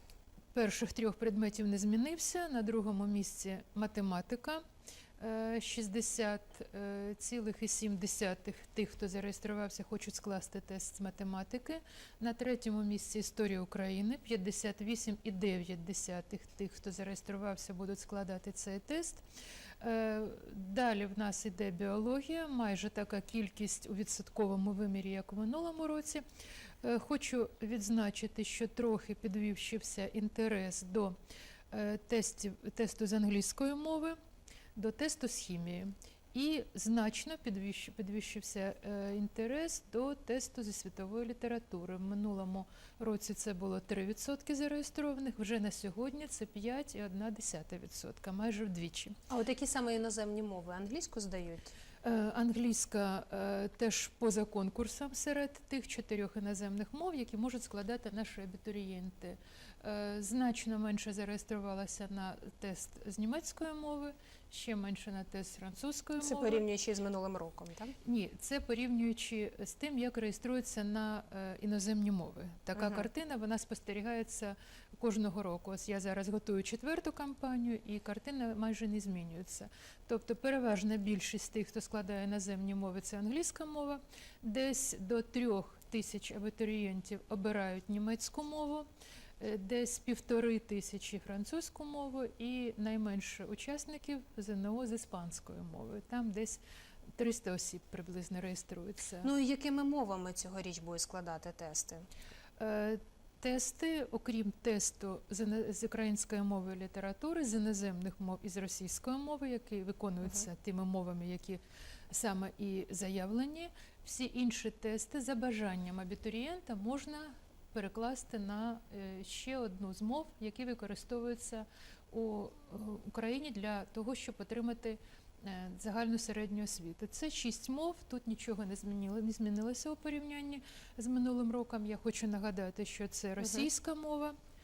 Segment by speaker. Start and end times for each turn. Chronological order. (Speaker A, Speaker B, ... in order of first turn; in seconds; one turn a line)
Speaker A: 0.5-4.6
Speaker A: 5.2-19.2
Speaker A: 19.8-26.2
Speaker A: 26.8-31.1
Speaker A: 31.7-34.2
Speaker A: 34.8-49.2
Speaker B: 49.3-51.7
Speaker A: 52.0-66.6
Speaker B: 66.2-68.0
Speaker A: 68.0-88.9
Speaker B: 72.8-73.0
Speaker A: 89.4-96.6
Speaker A: 97.2-99.3
Speaker B: 99.2-102.0
Speaker A: 102.6-134.3
Speaker B: 133.4-133.7